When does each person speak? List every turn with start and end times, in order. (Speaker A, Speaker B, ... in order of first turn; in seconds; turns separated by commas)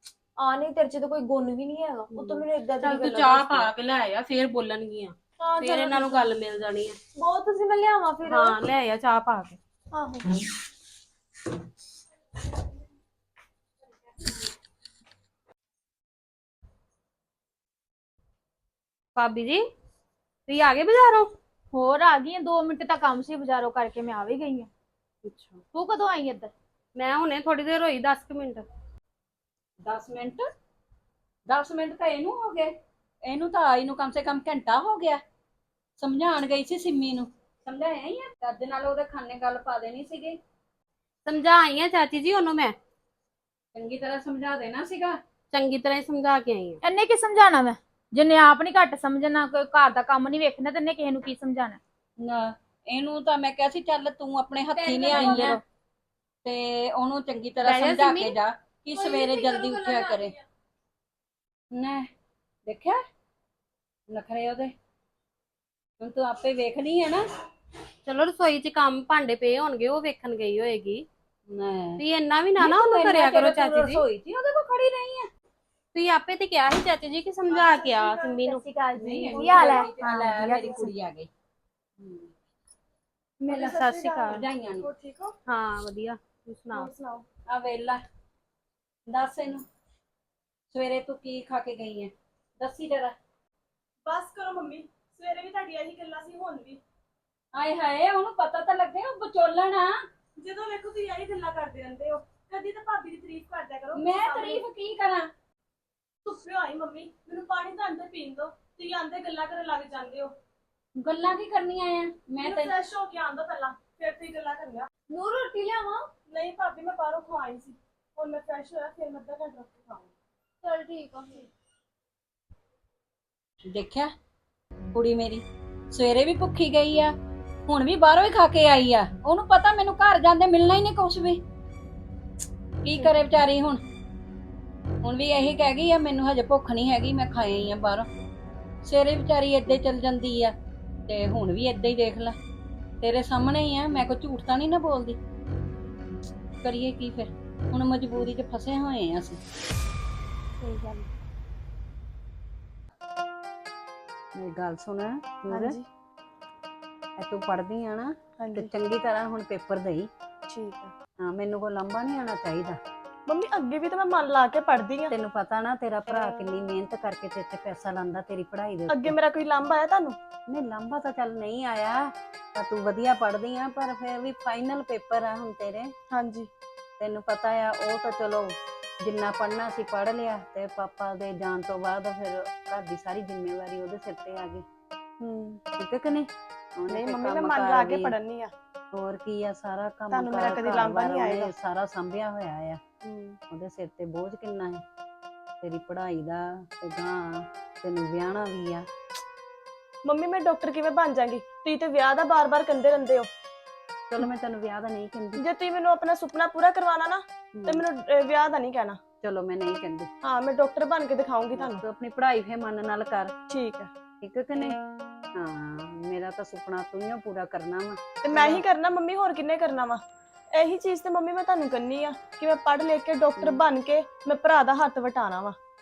Speaker A: 0.4-3.7, Speaker B: 2.1-7.0, Speaker A: 5.4-6.3, Speaker A: 7.2-8.6, Speaker B: 8.3-9.6, Speaker A: 9.9-10.4, Speaker B: 19.1-19.6, Speaker B: 20.5-21.3, Speaker C: 21.7-24.7, Speaker B: 25.2-25.6, Speaker C: 25.7-26.5, Speaker B: 26.9-28.7, Speaker D: 29.8-30.5, Speaker D: 31.5-32.7, Speaker D: 33.2-35.2, Speaker D: 36.0-40.4, Speaker B: 41.3-42.8, Speaker D: 43.7-45.2, Speaker B: 45.5-46.8, Speaker C: 46.8-51.8, Speaker D: 52.2-55.6, Speaker A: 54.8-55.6, Speaker C: 54.9-55.6, Speaker D: 56.4-60.3, Speaker B: 57.6-58.4, Speaker A: 58.9-60.4, Speaker D: 61.7-62.1, Speaker D: 62.7-63.0, Speaker D: 64.1-64.7, Speaker D: 66.0-67.2, Speaker B: 68.0-71.1, Speaker D: 71.5-72.0, Speaker B: 72.0-74.0, Speaker D: 72.6-75.3, Speaker B: 75.9-78.6, Speaker E: 77.5-78.4, Speaker C: 78.3-80.9, Speaker D: 79.0-81.3, Speaker D: 82.0-82.3, Speaker E: 83.5-85.4, Speaker D: 83.5-84.9, Speaker B: 83.6-84.4, Speaker B: 85.5-86.9, Speaker E: 86.7-87.2, Speaker D: 87.5-88.0, Speaker D: 89.1-89.7, Speaker D: 90.7-93.2, Speaker E: 94.0-96.8, Speaker D: 97.5-100.0, Speaker E: 100.4-104.6, Speaker D: 104.0-105.3, Speaker E: 106.2-110.3, Speaker D: 111.0-112.8, Speaker E: 112.4-114.9, Speaker A: 115.1-116.1, Speaker E: 116.3-120.1, Speaker A: 120.6-121.5, Speaker D: 123.7-124.1, Speaker D: 124.9-127.2, Speaker D: 127.7-131.4, Speaker D: 132.8-133.8, Speaker D: 135.0-138.1, Speaker D: 138.8-140.6, Speaker D: 141.1-142.4, Speaker D: 143.0-145.2, Speaker D: 146.6-149.4, Speaker E: 150.6-151.1, Speaker D: 154.3-155.8, Speaker E: 155.5-155.9, Speaker D: 157.2-160.1, Speaker E: 158.4-158.7, Speaker E: 160.5-160.9, Speaker D: 161.2-162.8, Speaker E: 163.3-165.1, Speaker D: 165.1-169.2, Speaker E: 168.9-170.2, Speaker D: 170.5-175.9, Speaker E: 176.1-176.5, Speaker D: 177.0-184.7, Speaker D: 185.2-188.2, Speaker E: 186.9-188.5, Speaker D: 188.9-194.8, Speaker E: 190.1-191.5, Speaker E: 193.1-193.3, Speaker D: 195.6-198.9, Speaker E: 200.1-203.3, Speaker D: 204.1-205.4, Speaker E: 205.4-209.0, Speaker D: 207.6-207.8, Speaker D: 209.2-210.1, Speaker E: 210.2-211.8, Speaker D: 211.6-213.3, Speaker E: 213.5-213.9, Speaker D: 214.2-214.8, Speaker D: 215.3-218.7, Speaker E: 218.2-220.0, Speaker E: 220.6-225.6